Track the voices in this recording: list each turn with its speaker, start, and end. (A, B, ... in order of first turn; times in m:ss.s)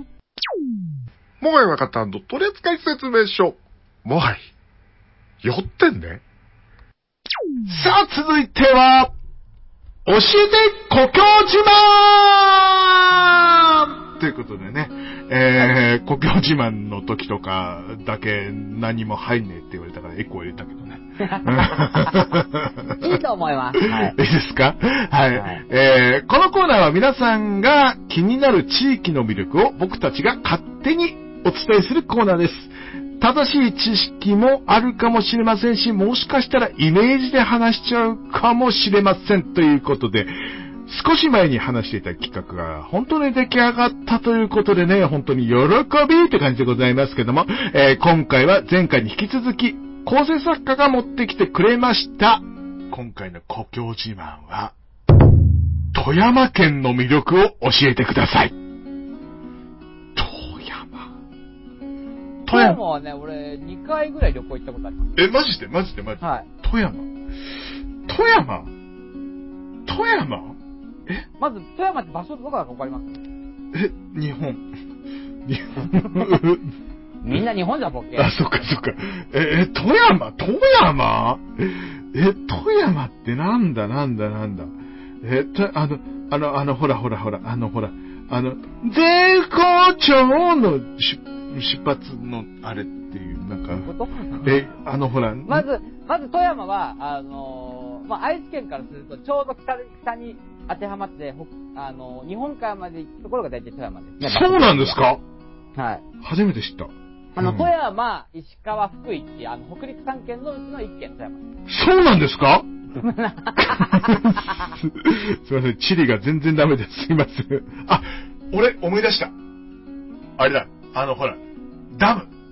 0:01.4-0:04.5 A
0:05.4-0:06.2 A
0:07.7-0:09.1 B
0:10.0-0:23.0 B
0:21.2-0:22.0 C
0:23.0-0:24.2 C
0:23.8-0:40.3 B
0:25.3-0:25.6 C
0:40.9-0:54.8 B
0:55.9-0:58.6 B
1:00.2-1:01.1 B
1:02.5-1:02.8 B
1:02.5-1:05.1 C
1:05.2-1:07.1 B
1:06.2-1:06.5 C
1:08.1-1:08.7 B
1:09.9-1:11.3 B
1:11.4-1:13.2 C
1:13.7-1:14.7 B
1:15.4-1:16.7 B
1:16.0-1:16.2 C
1:17.2-1:18.3 C
1:18.2-1:35.7 B
1:33.7-1:34.4 C
1:35.5-1:45.0 C
1:44.2-1:45.2 B
1:45.8-1:46.0 C
1:46.2-1:47.7 B
1:47.4-1:51.4 C
1:51.7-1:52.7 B
1:53.0-1:54.7 C
1:53.6-1:59.3 B
2:00.4-2:01.4 B
2:01.9-2:02.3 B